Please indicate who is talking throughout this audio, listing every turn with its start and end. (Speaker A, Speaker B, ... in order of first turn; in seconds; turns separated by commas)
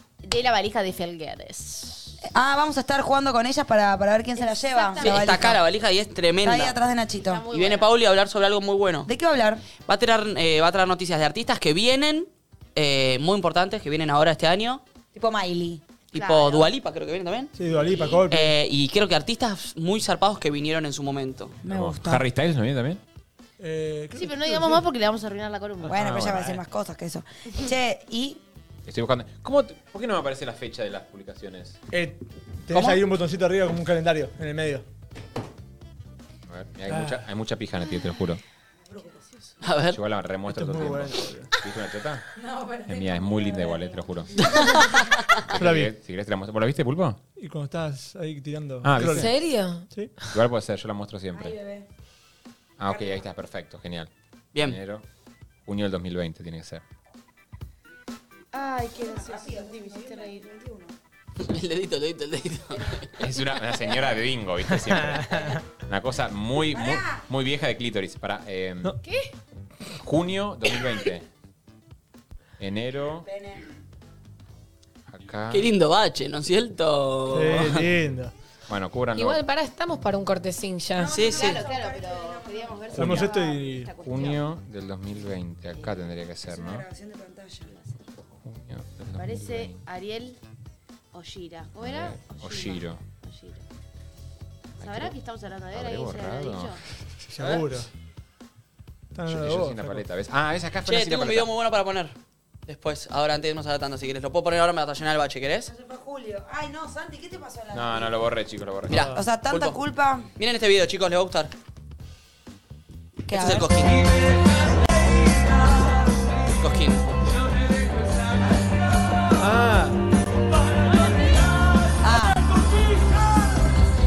Speaker A: 0.2-2.2, Speaker B: 2.2-5.6, Speaker A: 4.5-5.4, Speaker C: 5.0-6.8, Speaker B: 6.4-7.4, Speaker A: 7.2-7.9, Speaker C: 7.5-9.1, Speaker B: 9.0-9.6, Speaker C: 9.8-14.8, Speaker B: 15.1-15.8, Speaker A: 16.1-16.7, Speaker C: 16.1-17.5, Speaker D: 17.6-18.5, Speaker A: 17.8-18.2, Speaker C: 18.3-21.5, Speaker B: 21.6-22.2, Speaker E: 21.7-23.0, Speaker D: 23.6-24.8, Speaker A: 24.1-26.0, Speaker D: 25.8-26.6, Speaker B: 25.9-28.4, Speaker E: 28.9-31.8, Speaker D: 31.9-34.8, Speaker C: 32.7-33.0, Speaker E: 36.5-38.4, Speaker D: 36.9-37.2, Speaker C: 39.6-40.0, Speaker E: 39.9-42.2, Speaker D: 40.5-41.5, Speaker B: 42.3-44.5, Speaker E: 42.9-44.3, Speaker E: 45.5-47.2, Speaker D: 45.5-45.9, Speaker D: 47.4-49.3, Speaker E: 48.8-49.3, Speaker F: 49.0-49.9, Speaker E: 50.3-51.5, Speaker B: 51.3-51.9, Speaker E: 52.8-55.0, Speaker B: 52.8-53.2, Speaker E: 55.6-56.8, Speaker A: 58.5-60.5, Speaker B: 59.0-60.9, Speaker C: 61.4-63.1, Speaker E: 63.2-68.9, Speaker D: 64.9-65.5, Speaker B: 66.7-67.2, Speaker A: 69.0-69.3, Speaker E: 70.0-71.3, Speaker E: 72.6-73.3, Speaker B: 73.2-73.6, Speaker E: 75.1-75.7, Speaker C: 75.5-77.9, Speaker D: 77.3-78.3, Speaker E: 78.7-79.4, Speaker F: 79.1-81.2, Speaker C: 81.0-81.6, Speaker B: 81.0-83.3, Speaker A: 81.1-84.4, Speaker E: 82.9-83.3, Speaker D: 82.9-83.9, Speaker E: 84.0-86.8, Speaker B: 86.5-87.7, Speaker A: 87.7-88.0, Speaker E: 88.4-89.8, Speaker A: 89.2-90.4, Speaker A: 91.1-93.6, Speaker E: 91.8-93.0, Speaker A: 94.8-96.8, Speaker E: 94.8-95.2, Speaker E: 95.7-96.8, Speaker D: 97.3-97.9, Speaker D: 99.1-100.0, Speaker E: 99.2-101.5, Speaker C: 100.9-102.1, Speaker C: 102.7-105.7, Speaker B: 105.7-108.2, Speaker E: 107.7-109.1, Speaker C: 108.9-109.8, Speaker B: 109.1-110.3, Speaker C: 110.4-111.5, Speaker B: 113.3-113.7, Speaker C: 113.3-114.2, Speaker C: 116.5-117.4, Speaker D: 119.4-120.0, Speaker B: 122.0-122.4